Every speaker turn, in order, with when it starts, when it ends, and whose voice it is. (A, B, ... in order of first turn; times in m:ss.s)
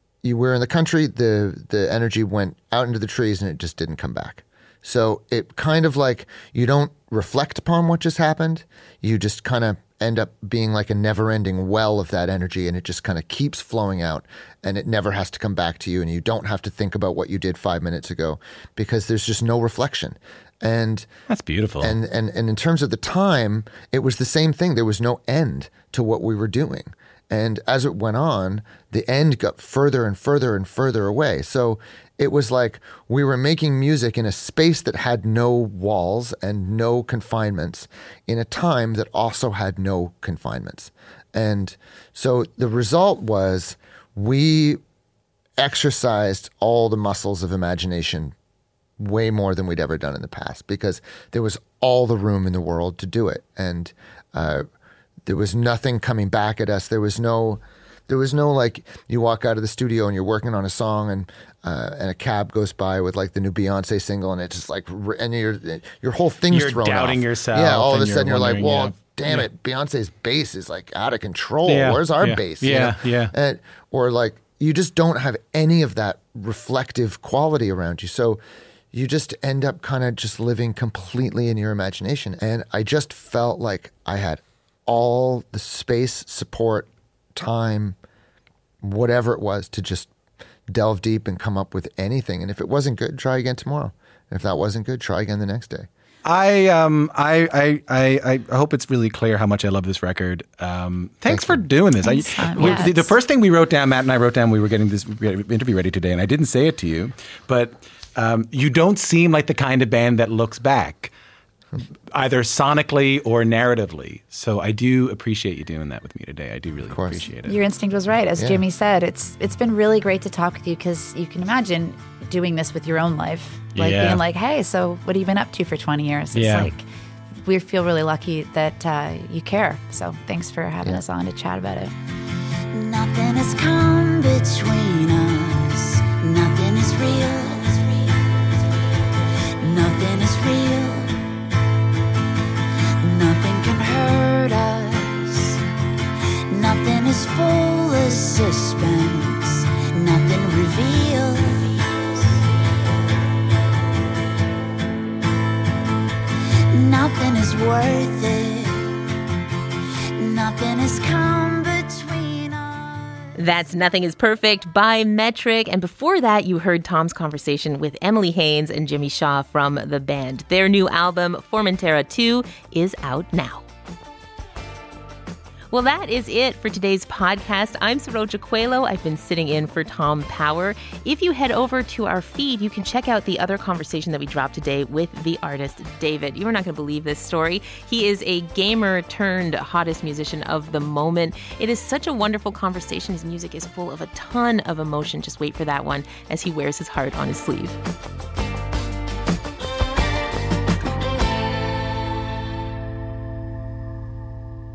0:00.2-0:21.1 A
0:21.3-0:22.0 B
0:21.8-0:44.8 A
0:45.6-0:48.3 A
0:49.0-0:54.7 A
0:55.2-1:18.4 A
1:06.5-1:09.4 B
1:11.7-1:13.3 B
1:18.9-1:28.0 A
1:28.8-1:30.1 A
1:30.7-1:35.9 A
1:36.2-1:51.1 B
1:41.3-1:41.6 A
1:42.0-1:43.2 C
1:52.1-1:57.6 B
1:56.9-1:57.2 A
1:57.4-2:06.8 C
2:03.7-2:04.2 B
2:06.3-2:06.7 B
2:07.4-2:11.9 C
2:12.7-2:18.4 D
2:19.6-2:21.2 D
2:23.0-2:25.6 D
2:26.5-2:32.4 D
2:36.7-2:39.0 D
2:40.2-2:43.3 D
2:43.4-2:53.6 E
2:55.7-3:17.8 E